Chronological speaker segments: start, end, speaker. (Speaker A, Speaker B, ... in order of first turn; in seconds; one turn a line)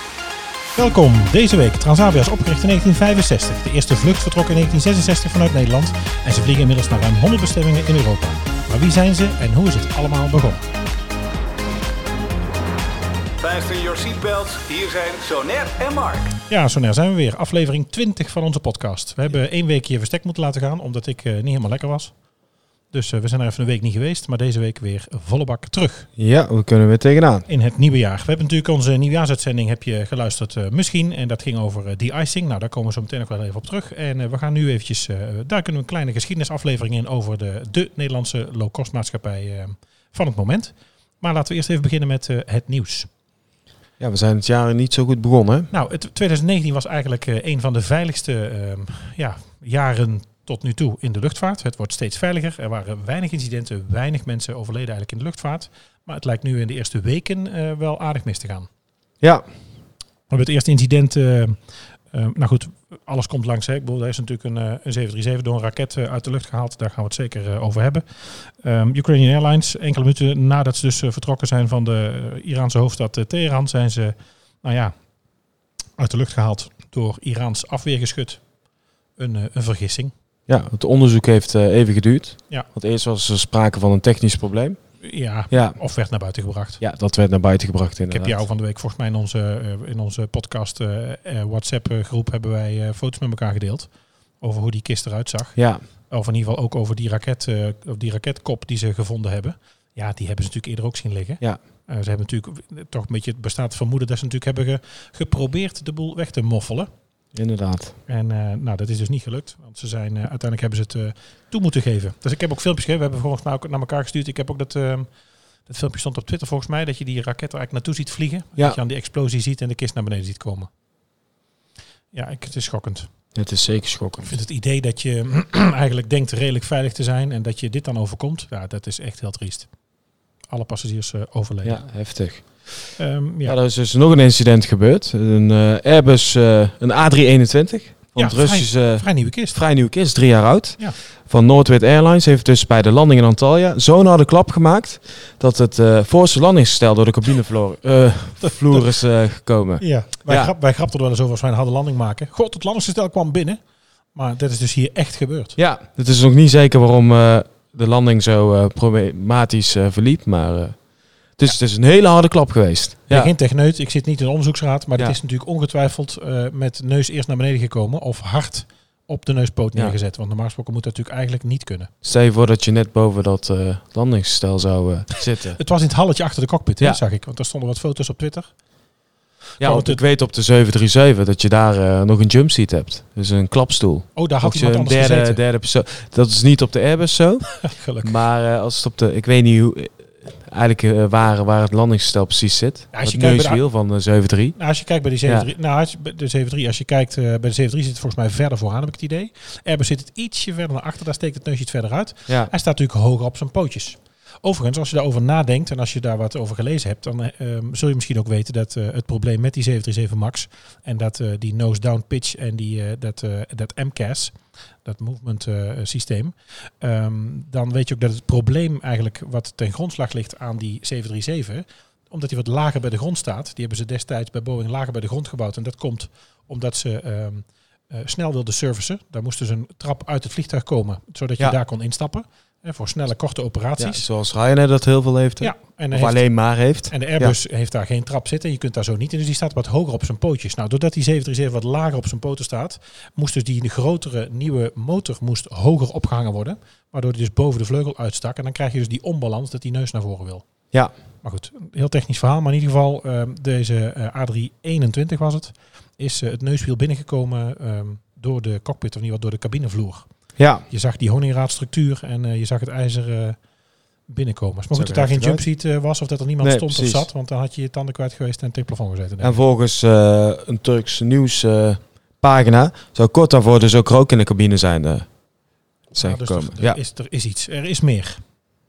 Speaker A: 0.8-10.7
Speaker B: 13.4-16.4
Speaker A: 16.5-22.1
Speaker A: 22.9-26.1
Speaker C: 26.2-27.4
Speaker A: 27.5-43.1
Speaker C: 44.0-45.7
Speaker A: 45.7-58.7
Speaker A: 60.3-74.9
Speaker A: 76.0-78.4
Speaker A: 79.2-80.1
Speaker C: 80.5-84.8
Speaker A: 85.0-86.8
Speaker C: 85.5-85.8
Speaker C: 86.8-88.4
Speaker A: 88.1-106.9
Speaker C: 95.6-95.8
Speaker C: 107.3-108.0
Speaker A: 108.1-115.1
Speaker A: 115.7-120.7
Speaker A: 122.1-123.1
Speaker C: 123.3-124.3
Speaker A: 124.2-129.7
Speaker A: 130.5-131.8
Speaker C: 131.6-132.9
Speaker A: 133.0-133.6
Speaker C: 133.4-150.5
Speaker A: 138.2-139.6
Speaker A: 148.4-148.9
Speaker A: 149.8-153.6
Speaker A: 154.1-155.6
Speaker C: 155.6-163.3
Speaker A: 163.1-171.9
Speaker C: 172.0-175.6
Speaker A: 175.6-178.5
Speaker A: 179.6-180.0
Speaker C: 179.6-194.6
Speaker A: 184.2-185.4
Speaker A: 187.6-188.2
Speaker A: 192.9-193.6
Speaker A: 194.6-234.1
Speaker C: 233.8-237.3
Speaker A: 235.4-236.3
Speaker A: 236.9-250.4
Speaker A: 251.2-260.1
Speaker C: 260.4-260.6
Speaker A: 260.7-263.4
Speaker A: 264.1-269.4
Speaker C: 264.7-265.4
Speaker C: 266.4-267.1
Speaker C: 269.2-275.1
Speaker C: 275.9-276.8
Speaker A: 275.9-278.2